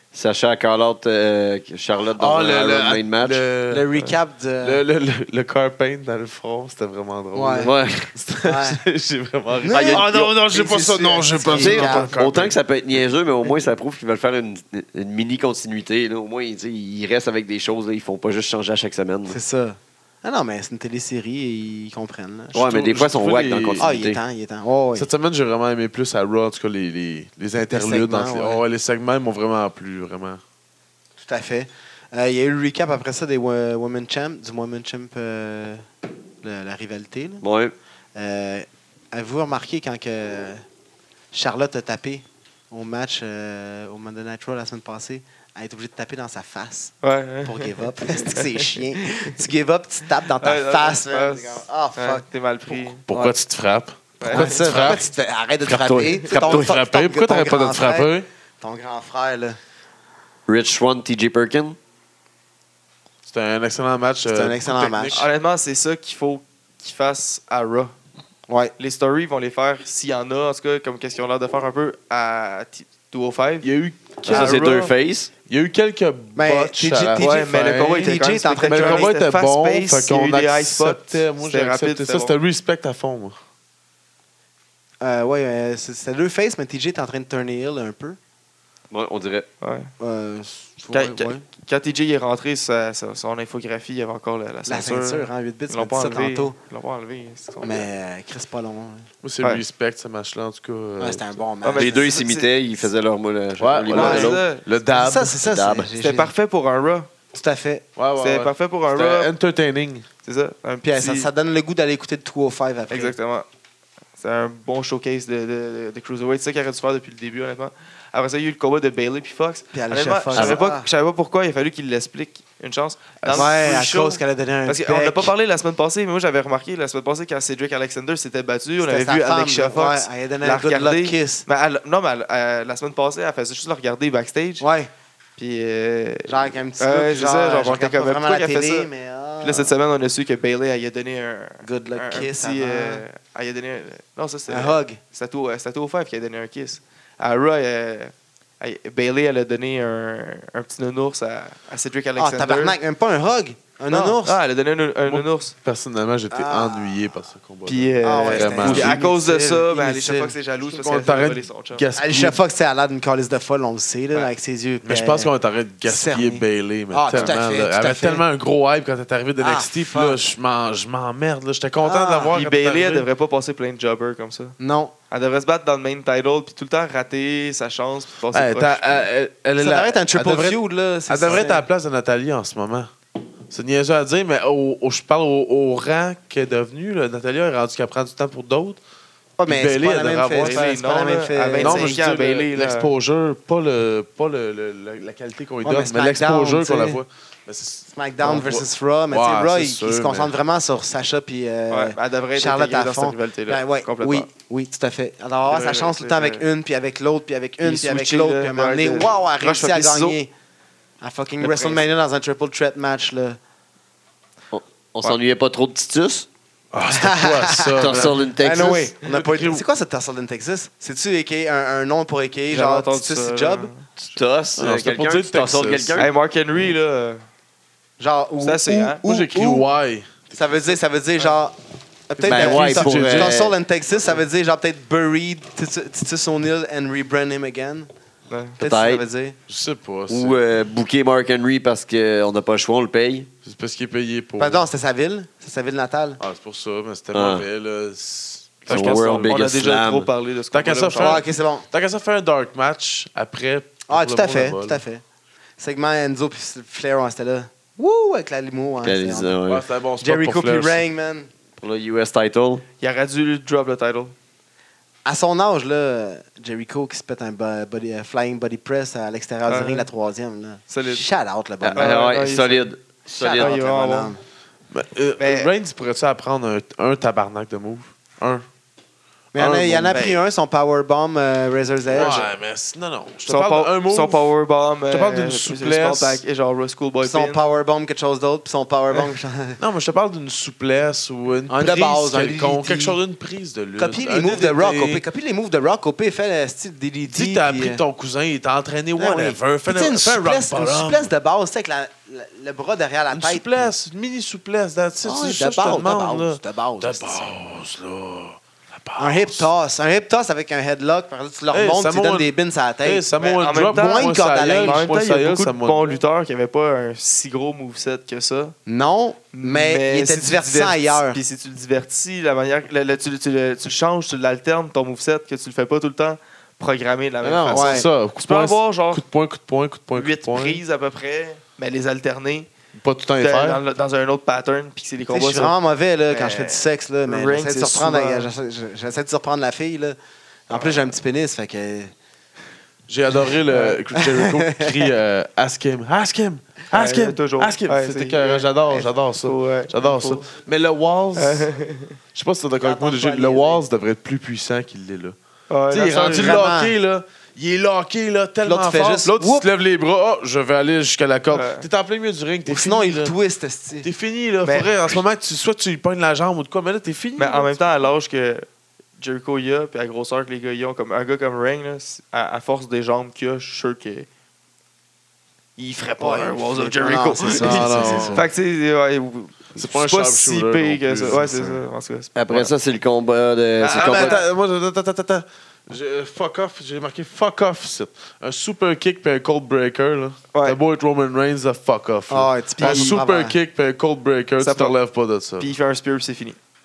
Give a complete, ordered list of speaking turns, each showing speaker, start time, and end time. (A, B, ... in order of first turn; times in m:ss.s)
0:00.1-0:03.4 A
0:02.2-0:12.6 B
0:03.7-0:04.8 C
0:07.3-0:07.7 C
0:07.6-0:08.1 A
0:08.4-0:08.8 C
0:09.6-0:12.1 C
0:09.7-0:10.3 A
0:11.5-0:19.4 A
0:19.3-0:22.6 C
0:22.5-0:23.9 B
0:22.5-0:24.2 A
0:23.8-0:25.1 C
0:25.0-0:30.4 B
0:27.7-0:28.6 C
0:31.2-0:35.9 C
0:36.4-0:37.4 C
0:37.4-0:37.7 A
0:38.2-0:40.6 C
0:41.3-0:53.4 C
0:47.0-0:49.3 D
0:50.4-0:53.0 D
0:53.1-0:55.1 B
0:54.2-0:54.6 D
0:54.2-0:59.6 C
0:55.7-0:58.3 B
0:55.7-0:56.7 A
1:00.5-1:01.8 A
1:03.3-1:05.3 B
1:04.3-1:05.2 C
1:05.1-1:07.9 D
1:08.5-1:08.7 C
1:08.8-1:13.7 D
1:13.6-1:14.6 B
1:14.2-1:15.3 A
1:14.2-1:14.9 D
1:15.5-1:23.4 B
1:16.4-1:19.1 C
1:17.2-1:22.3 D
1:25.0-1:28.2 C
1:28.9-1:29.5 A
1:29.6-1:29.9 D
1:30.0-1:31.4 C
1:30.9-1:37.9 D
1:34.7-1:36.5 C
1:37.6-1:39.1 C
1:39.2-1:41.4 B
1:41.0-1:42.1 C
1:41.6-1:42.5 D
1:41.8-1:44.4 A
1:43.6-1:45.4 B
1:43.9-1:44.7 D
1:44.0-1:44.3 C
1:44.9-1:46.3 C
1:45.4-1:45.9 A
1:46.0-1:47.1 D
1:47.3-1:47.9 C
1:48.0-1:50.1 B
1:48.2-1:49.3 D
1:50.2-1:51.3 D
1:50.8-1:53.1 C
1:52.9-1:53.5 D
1:54.2-2:14.7 D
1:59.7-2:00.9 C
2:00.4-2:00.6 A
2:03.2-2:03.6 B
2:03.3-2:05.3 C
2:08.8-2:11.5 C
2:14.6-2:14.9 C
2:15.4-2:18.9 D
2:16.3-2:19.7 C
2:19.4-2:32.8 D
2:21.6-2:23.0 C
2:24.5-2:25.0 C
2:32.2-2:34.4 C
2:33.9-2:35.5 D
2:35.1-2:39.0 B
2:36.3-2:37.0 C
2:37.7-2:41.9 D
2:38.0-2:40.4 C
2:40.7-2:42.4 B
2:42.0-2:45.3 C
2:44.8-2:53.1 B
2:45.8-2:48.2 C
2:49.4-2:50.2 C
2:51.8-2:52.4 C
2:52.3-2:54.6 D
2:54.6-2:54.9 C
2:55.1-2:59.1 D
2:58.3-3:02.9 B
2:59.6-3:01.6 C
3:01.3-3:01.6 D
3:03.5-3:08.8 B
3:09.4-3:12.0 C
3:09.5-3:10.7 B
3:10.4-3:12.9 D
3:11.6-3:20.3 B
3:15.6-3:17.0 C
3:17.9-3:30.3 C
3:21.7-3:24.3 D
3:25.4-3:26.5 D
3:27.6-3:30.2 D
3:31.0-3:33.4 C
3:31.4-3:31.8 D
3:34.5-3:36.3 A
3:36.7-3:38.2 B
3:36.9-3:43.7 C
3:37.8-3:38.9 A
3:39.0-3:39.6 B
3:42.5-3:44.2 D
3:44.1-3:46.1 A
3:44.6-3:46.1 B
3:46.0-3:47.2 D
3:48.0-3:49.7 C
3:48.4-3:49.0 D
3:49.0-3:50.8 B
3:50.4-3:51.6 C
3:52.1-3:57.9 C
3:52.2-3:53.4 B
3:52.2-3:53.6 A
3:58.3-3:58.6 D
3:58.6-3:59.0 A
3:58.6-3:59.4 C
3:59.5-4:00.4 B
4:00.1-4:03.3 A
4:03.4-4:04.7 B
4:04.4-4:06.2 C
4:06.2-4:09.4 B
4:07.1-4:07.4 A
4:08.7-4:10.1 A
4:08.7-4:11.3 D
4:10.5-4:14.8 B
4:11.0-4:11.7 C
4:13.9-4:15.0 C
4:15.6-4:19.4 C
4:18.8-4:19.6 A
4:19.4-4:20.8 B
4:20.0-4:21.3 C
4:21.6-4:22.6 A
4:22.8-4:24.2 D
4:25.0-4:32.0 C
4:29.5-4:29.9 D
4:30.7-4:31.1 D
4:31.6-4:33.6 A
4:31.8-4:32.7 D
4:33.2-4:34.2 C
4:33.4-4:34.1 D
4:34.7-4:38.4 B
4:35.2-4:35.5 D
4:39.3-4:42.3 C
4:39.4-4:40.0 B
4:39.9-4:40.2 D
4:41.9-4:44.3 B
4:43.3-4:47.4 D
4:44.9-4:46.2 B
4:47.0-4:49.6 C
4:49.6-4:55.0 B
4:51.5-4:53.0 C
4:53.8-4:57.8 C
4:57.1-5:01.1 B
4:59.0-5:03.7 C
5:03.1-5:09.5 B
5:05.0-5:07.3 C
5:09.0-5:14.9 C
5:11.5-5:16.0 B
5:13.2-5:18.6 D
5:18.7-5:21.2 C
5:19.3-5:29.0 D
5:27.2-5:30.6 B
5:27.5-5:27.9 C
5:30.0-5:32.5 D
5:32.8-5:33.6 B
5:33.2-5:35.5 D
5:35.1-5:40.0 C
5:36.1-5:38.3 D
5:40.5-5:41.9 C
5:40.5-5:40.9 D
5:42.9-5:51.5 B
5:43.5-5:43.8 D
5:44.0-5:44.9 C
5:46.7-5:48.5 D
5:49.2-5:50.2 D
5:51.2-5:52.0 D
5:52.1-5:55.2 B
5:52.6-5:53.6 C
5:55.5-5:56.5 D
5:55.7-6:03.1 B
5:55.9-5:56.7 C
5:58.4-5:59.5 C
6:01.3-6:01.7 D
6:02.4-6:03.9 C
6:03.8-6:07.7 B
6:04.4-6:04.9 D
6:07.2-6:08.5 D
6:09.0-6:14.1 D
6:15.6-6:22.1 D
6:16.0-6:18.3 C
6:17.3-6:18.3 B
6:19.6-6:21.6 B
6:22.2-6:24.2 A
6:23.6-6:24.2 D
6:23.8-6:35.5 B
6:30.3-6:30.6 D
6:32.1-6:33.4 C
6:32.6-6:33.0 D
6:34.4-6:34.8 D
6:35.4-6:36.4 D